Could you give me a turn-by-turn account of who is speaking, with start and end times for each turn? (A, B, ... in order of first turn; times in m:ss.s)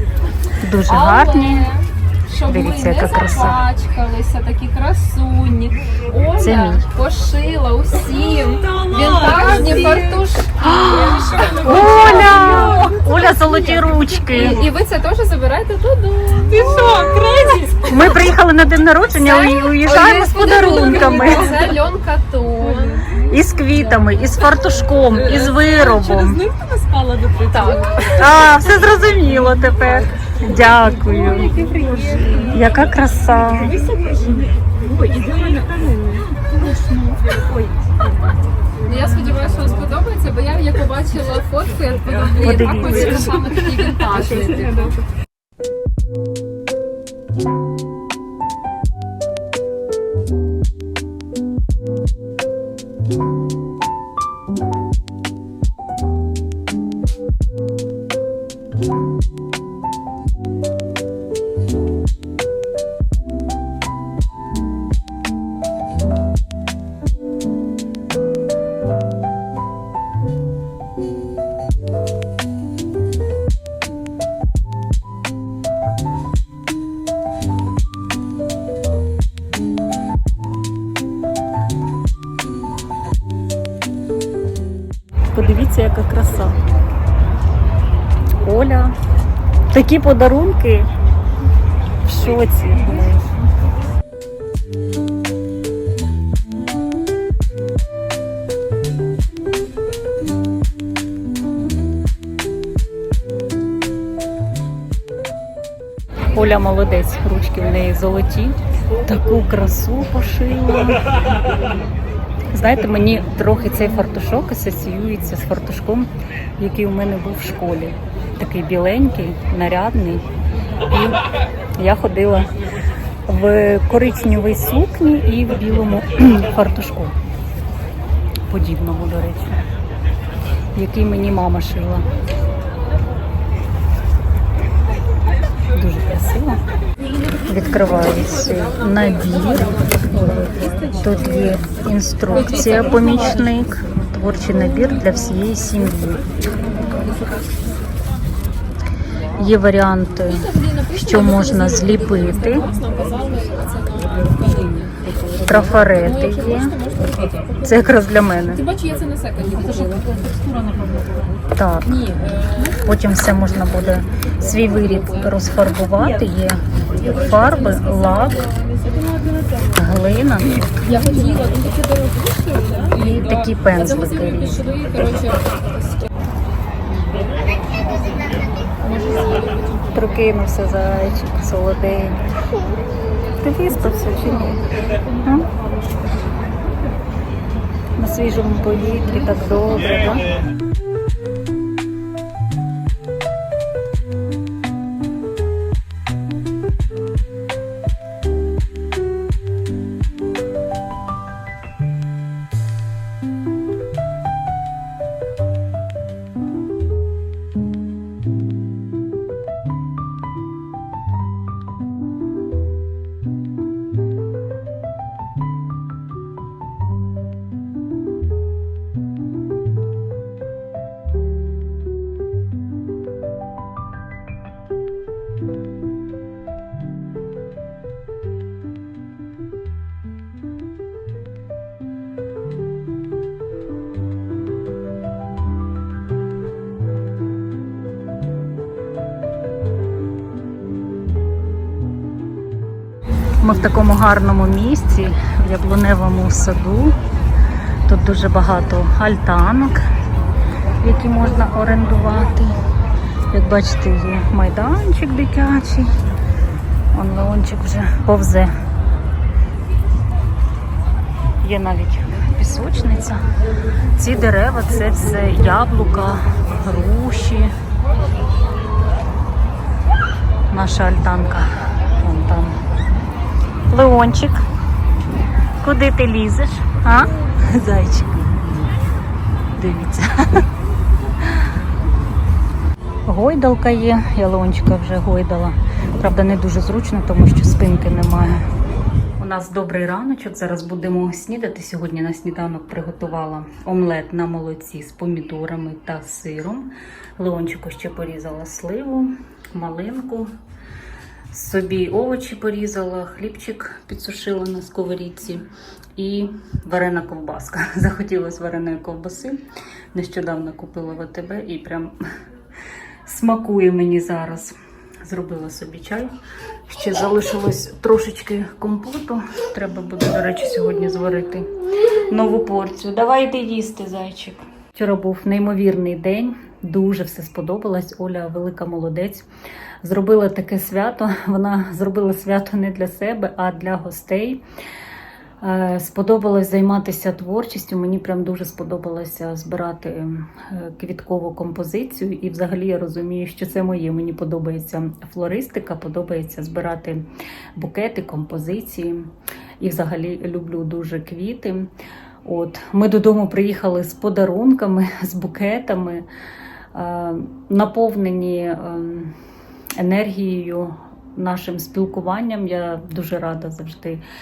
0:00.6-0:01.7 A
0:00.9-0:10.5 B
0:02.5-0:03.7 A
0:06.4-0:06.8 A
0:08.1-0:13.0 C
0:10.6-0:14.7 A
0:11.3-0:18.3 B
0:16.5-0:18.1 C
0:17.9-0:21.8 A
0:19.2-0:24.4 B
0:20.4-0:21.9 C
0:22.6-0:23.4 C
0:23.3-0:26.4 A
0:25.1-0:28.4 C
0:27.5-0:28.6 B
0:28.2-0:31.6 A
0:29.8-0:30.1 B
0:30.7-0:32.8 C
0:31.5-0:32.5 B
0:32.4-0:33.8 A
0:33.5-0:38.4 C
0:36.6-0:37.1 B
0:38.8-0:45.0 B
0:39.3-0:39.6 C
0:42.0-0:45.0 C
0:42.4-0:43.5 A
1:25.3-1:26.6 A
1:28.4-1:29.0 A
1:29.7-1:30.9 A
1:32.1-1:33.2 A
1:46.3-1:51.2 A
1:52.5-2:00.2 A
2:00.9-2:01.2 A
2:01.8-2:02.5 A
2:03.3-2:07.2 A
2:08.5-2:09.6 A
2:10.8-2:12.1 A
2:15.7-2:16.6 A
2:17.4-2:20.0 A
2:18.4-2:21.5 B
2:20.9-2:26.2 A
2:22.3-2:23.4 B
2:29.4-2:32.6 A
2:30.3-2:37.9 B
2:35.4-2:36.8 A
2:37.6-2:38.6 A
2:38.5-2:40.1 B
2:40.6-2:41.0 C
2:41.5-2:41.9 A
2:41.9-2:42.8 B
2:42.8-2:48.4 A
2:44.7-2:45.4 B
2:47.0-2:49.0 B
2:49.8-2:50.8 A
2:50.8-2:56.1 B
2:52.9-2:54.7 A
2:58.8-3:00.0 B
2:59.9-3:02.2 A
3:03.4-3:04.6 A
3:05.2-3:05.5 A
3:08.0-3:10.3 A
4:03.4-4:07.0 A
4:07.9-4:09.8 A
4:10.8-4:12.6 A
4:13.3-4:16.0 A
4:16.9-4:18.5 A
4:21.4-4:23.2 A
4:24.0-4:27.5 A
4:30.5-4:32.6 A
4:33.7-4:34.4 A
4:35.6-4:38.7 A
4:39.6-4:40.4 A
4:43.1-4:48.4 A
4:49.2-5:00.3 A
5:01.3-5:09.4 A
5:09.9-5:12.0 A
5:13.1-5:16.1 A
5:16.7-5:21.5 A
5:22.1-5:29.3 A
5:29.8-5:34.4 A
5:35.4-5:47.0 A
5:47.6-5:51.7 A
5:52.2-5:56.1 A
5:56.7-5:59.2 A
5:59.8-6:04.0 A